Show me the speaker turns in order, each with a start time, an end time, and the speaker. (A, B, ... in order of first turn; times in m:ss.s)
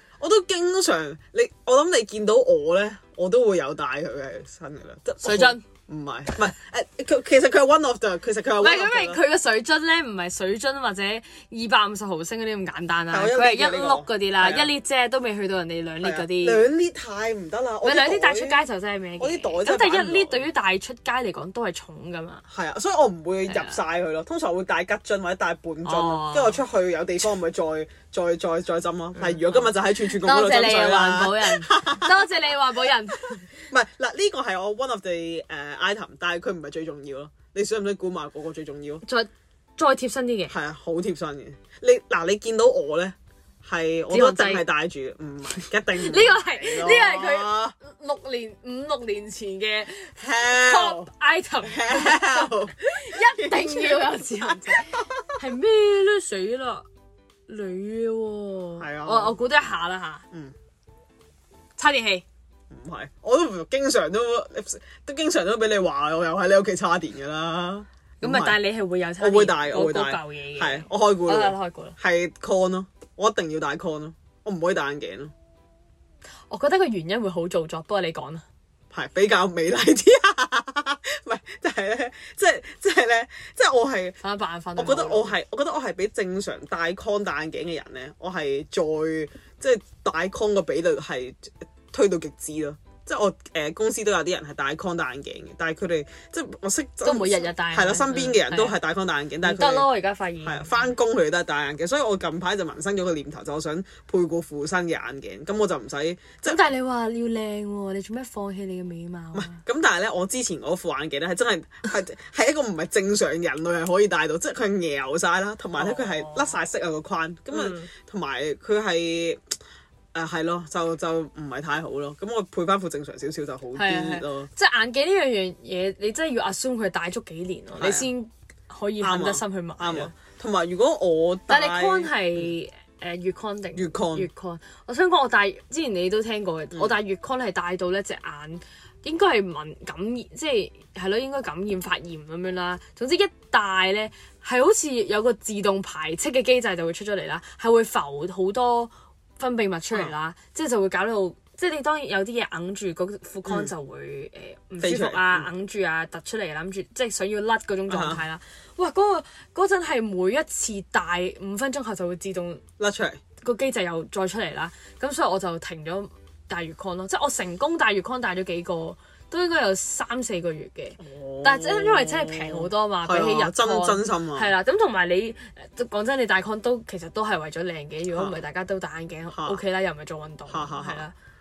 0:00.2-0:09.2 A
0:05.2-0:05.6 B
0:08.6-0:16.6 B
0:13.1-0:14.7 A
0:16.0-0:18.6 A
0:17.8-0:22.4 B
0:19.2-0:20.4 A
0:22.5-0:32.4 A
0:23.5-0:23.8 B
0:25.8-0:26.6 B
0:29.2-0:33.6 B
0:33.7-0:39.0 A
0:39.0-0:40.5 B
0:40.5-0:47.8 A
0:44.1-0:44.6 B
0:45.9-0:56.8 B
0:50.2-0:51.1 A
0:51.6-0:55.4 A
0:57.5-1:00.2 B
0:58.8-0:59.4 A
1:01.8-1:02.2 B
1:02.7-1:08.6 A
1:08.2-1:12.0 B
1:09.2-1:15.3 A
1:16.5-1:18.4 B
1:18.9-1:24.2 A
1:24.2-1:25.3 B
1:24.8-1:39.9 A
1:37.0-1:38.8 B
1:39.4-1:40.9 B
1:40.4-1:46.6 A
1:46.4-1:49.6 B
1:49.3-1:59.5 A
1:55.8-1:56.6 B
1:57.5-1:57.9 B
2:00.1-2:04.5 A
2:03.8-2:10.1 B
2:07.8-2:08.1 A
2:09.0-2:12.5 A
2:11.5-2:42.6 B
2:13.8-2:14.3 A
2:33.4-2:33.7 A
2:34.8-2:35.5 A
2:37.9-2:38.2 A
2:42.8-2:43.2 A
2:43.4-3:01.1 B
2:51.0-2:54.5 A
2:58.1-2:58.4 A
2:59.3-2:59.6 A
3:00.5-3:01.0 A